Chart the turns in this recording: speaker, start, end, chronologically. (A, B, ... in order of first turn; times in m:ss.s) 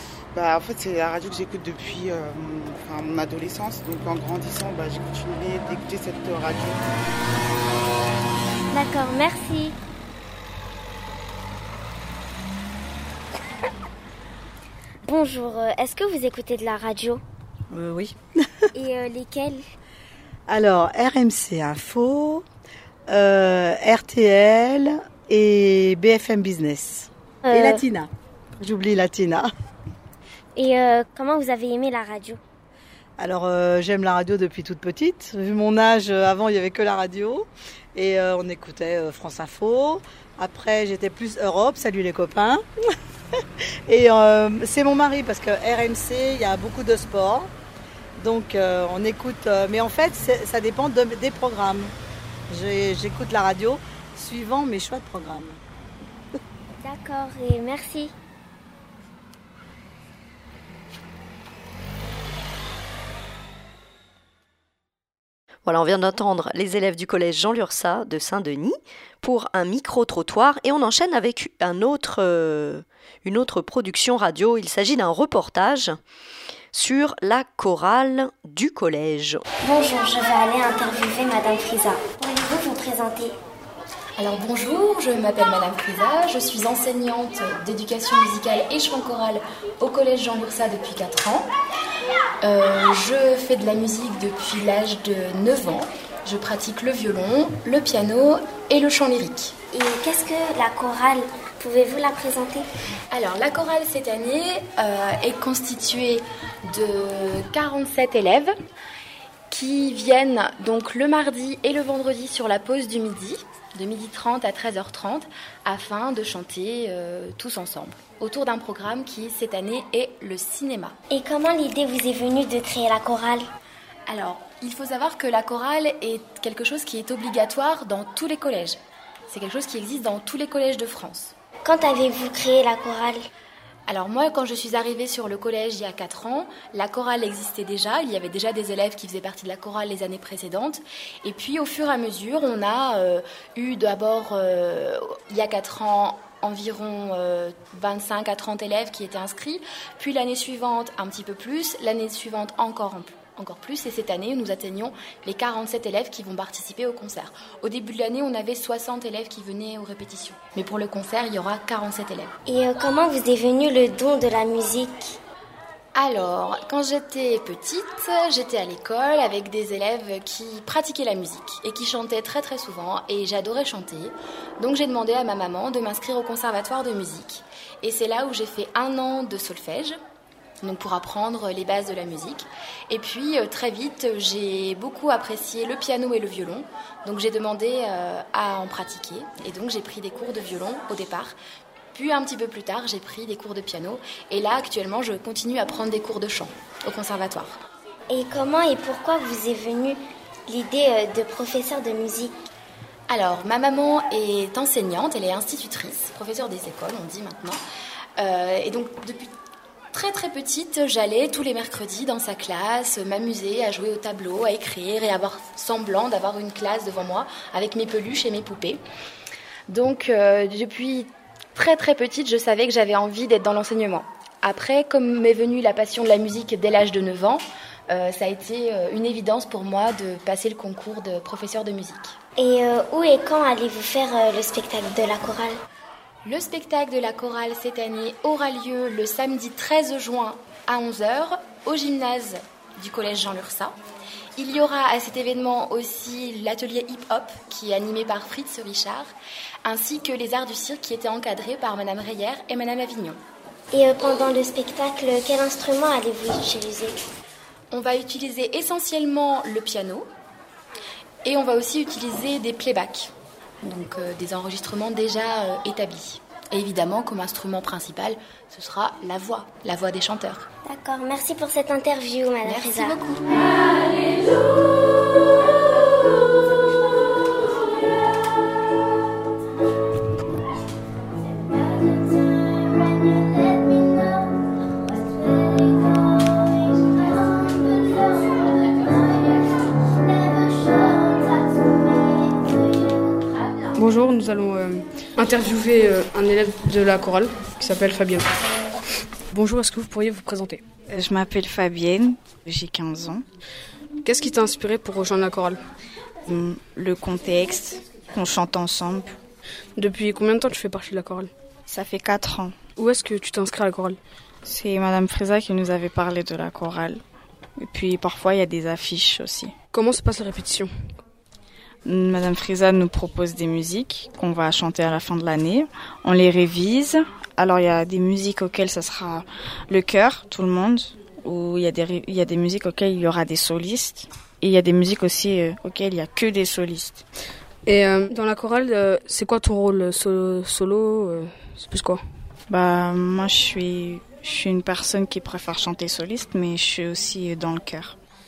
0:00.3-0:06.9 A
0:08.7-0:09.8 B
0:15.0-0:17.2 B
0:17.7-0:18.1 C
0:18.8-0:19.6 B
0:20.5-0:22.4 C
0:23.1-0:29.5 C
0:27.5-0:27.8 B
0:30.6-0:32.4 B
0:33.2-0:42.7 C
0:43.9-0:47.5 C
0:48.2-0:52.0 C
0:52.5-0:55.6 C
0:56.8-0:58.1 B
1:05.7-1:16.0 D
1:16.7-1:19.4 D
1:19.6-1:23.4 B
1:24.2-1:31.5 E
1:32.4-1:39.5 E
1:39.7-1:42.7 B
1:43.1-1:48.5 E
1:49.5-2:01.0 E
2:01.1-2:03.5 B
2:04.1-2:11.3 E
2:11.6-2:13.2 B
2:13.9-2:42.3 E
2:42.5-2:45.2 B
2:46.0-3:00.0 E
3:00.6-3:11.4 E
3:11.9-3:17.6 E
3:18.1-3:22.4 B
3:23.1-3:27.6 E
3:28.2-3:29.3 E
3:29.9-3:38.8 E
3:39.7-3:52.2 E
3:52.4-3:55.6 B
3:56.2-4:03.8 E
4:04.4-4:09.1 E
4:09.6-4:13.2 E
4:13.7-4:17.0 B
4:17.7-4:20.1 E
4:21.2-4:23.1 E
4:23.6-4:30.5 E
4:30.7-4:33.0 B
4:47.6-4:49.0 B
4:50.3-4:52.5 B
4:53.8-4:58.3 F
4:59.3-5:00.7 F
5:00.8-5:03.2 G
5:04.0-5:05.6 F
5:06.3-5:09.2 G
5:09.8-5:11.3 F
5:11.7-5:12.7 G
5:12.8-5:14.0 F
5:14.4-5:17.0 G
5:17.6-5:19.6 G
5:19.7-5:20.7 F
5:21.8-5:37.0 G
5:37.7-5:42.0 F
5:42.5-5:48.0 G